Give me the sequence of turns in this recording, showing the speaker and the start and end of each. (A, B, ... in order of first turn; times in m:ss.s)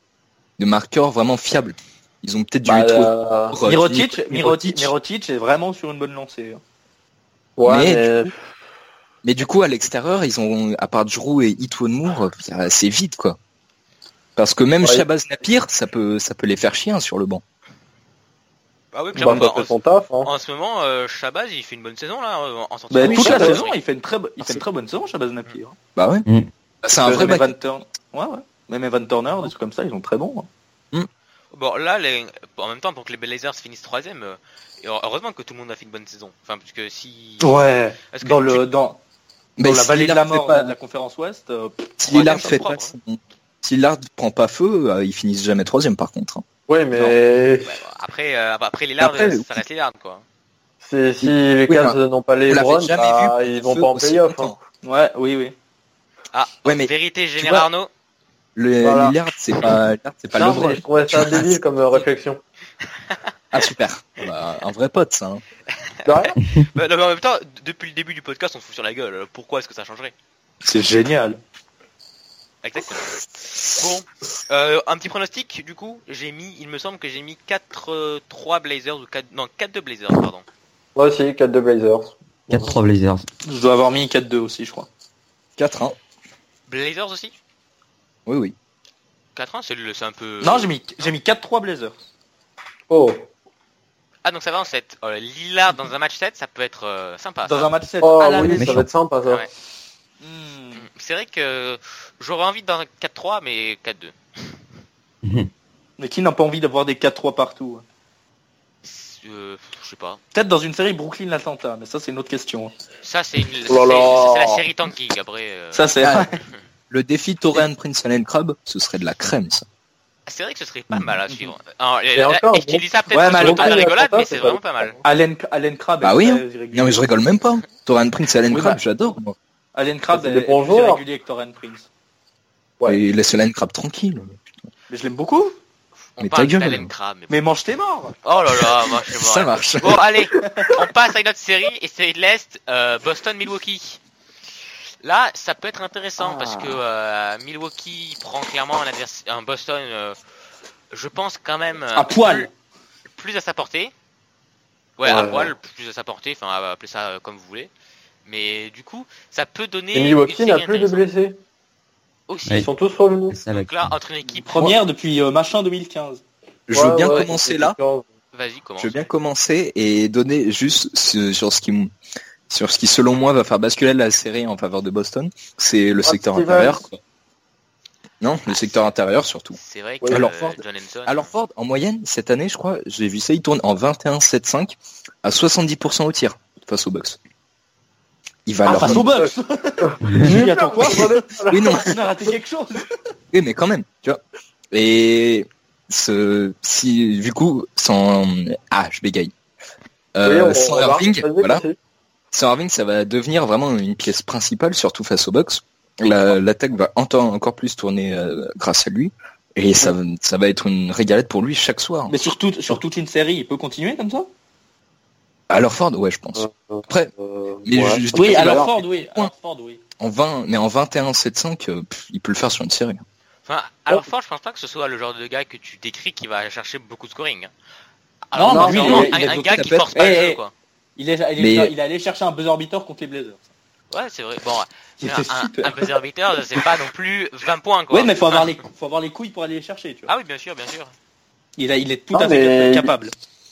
0:00.6-0:04.9 A
0:02.6-0:03.6 B
0:03.6-0:06.6 C
0:07.6-0:08.3 B
0:07.6-0:08.3 A
0:09.2-0:13.4 A
0:14.4-0:17.4 A
0:18.9-0:23.8 D
0:19.2-0:20.3 B
0:22.9-0:25.8 C
0:23.0-0:23.6 A
0:23.2-0:23.5 B
0:26.0-0:26.3 A
0:26.8-0:27.6 A
0:27.0-0:27.3 B
0:27.0-0:30.5 C
0:31.5-0:38.7 D
0:37.4-0:39.0 C
0:39.6-0:40.7 A
0:39.6-0:42.0 C
0:42.0-0:46.4 A
0:42.1-0:43.0 D
0:46.7-0:47.8 B
0:47.6-0:50.2 D
0:49.0-0:49.6 A
0:50.8-0:54.6 B
0:51.2-0:52.0 A
0:52.5-0:54.6 A
0:54.8-0:55.6 C
0:56.3-0:57.9 D
0:56.6-0:57.7 A
0:58.6-1:01.6 A
0:58.8-0:59.2 B
1:00.3-1:02.4 B
1:03.5-1:05.4 A
1:06.0-1:10.1 D
1:06.0-1:06.4 B
1:10.6-1:11.4 C
1:12.6-1:13.1 D
1:13.7-1:20.4 D
1:21.0-1:22.7 B
1:22.5-1:23.3 E
1:23.5-1:24.9 C
1:25.6-1:26.0 A
1:26.7-1:27.4 D
1:28.3-1:28.5 A
1:29.4-1:31.1 D
1:30.4-1:32.0 C
1:32.9-1:33.2 B
1:34.2-1:37.7 D
1:37.5-1:38.8 C
1:38.0-1:39.5 B
1:38.6-1:38.8 A
1:40.2-1:40.8 C
1:40.8-1:44.6 D
1:45.2-1:45.5 E
1:46.0-1:47.8 C
1:48.8-1:50.2 D
1:50.3-1:52.7 C
1:53.0-1:56.5 D
1:53.7-1:54.6 B
1:55.7-1:56.4 C
1:56.0-1:56.3 A
1:56.9-1:59.6 A
2:00.3-2:05.0 D
2:01.3-2:01.5 C
2:02.2-2:02.8 B
2:03.1-2:03.9 C
2:03.4-2:05.0 B
2:05.0-2:07.0 C
2:06.0-2:09.4 A
2:08.5-2:08.8 C
2:09.8-2:11.9 C
2:10.1-2:11.0 B
2:12.8-2:14.4 A
2:14.9-2:15.6 C
2:16.2-2:17.4 D
2:16.2-2:16.9 A
2:17.3-2:18.2 C
2:18.2-2:24.0 D
2:19.0-2:20.1 A
2:20.4-2:20.8 C
2:25.0-2:30.2 D
2:26.2-2:26.8 C
2:30.9-2:32.5 D
2:31.9-2:32.5 C
2:33.2-2:33.9 D
2:35.0-2:37.7 D
2:35.0-2:35.5 B
2:38.2-2:41.1 D
2:39.9-2:41.4 B
2:42.3-2:42.7 D
2:42.5-2:43.4 B
2:43.3-2:43.7 E
2:43.5-2:44.7 D
2:44.3-2:46.2 C
2:46.7-2:47.8 A
2:46.7-2:48.1 B
2:48.3-2:49.1 D
2:48.8-2:51.9 A
2:52.5-2:57.0 A
2:56.0-2:56.8 B
2:58.2-2:59.6 A
2:58.5-2:58.8 D
2:59.6-3:01.2 D
3:00.1-3:07.2 A
3:08.5-3:09.1 A
3:08.6-3:12.9 C
3:08.8-3:12.0 B
3:10.0-3:10.4 E
3:11.5-3:12.0 A
3:13.3-3:19.3 A
3:20.2-3:21.6 A
3:20.2-3:21.8 B
3:22.3-3:32.1 A
3:32.1-3:34.3 C
3:35.5-3:37.1 A
3:36.4-3:38.7 B
3:37.6-3:39.3 A
3:38.1-3:39.8 C
3:40.0-3:43.0 A
3:43.5-3:47.5 D
3:48.3-3:50.5 D
3:48.3-3:49.3 C
3:48.5-3:49.1 B
3:49.2-3:49.9 A
3:49.9-3:50.4 C
3:51.0-3:53.4 C
3:51.4-3:51.7 A
3:53.9-3:58.5 D
3:55.0-3:56.0 C
3:57.9-4:00.1 C
4:00.1-4:00.9 D
4:01.6-4:03.1 C
4:02.1-4:02.9 B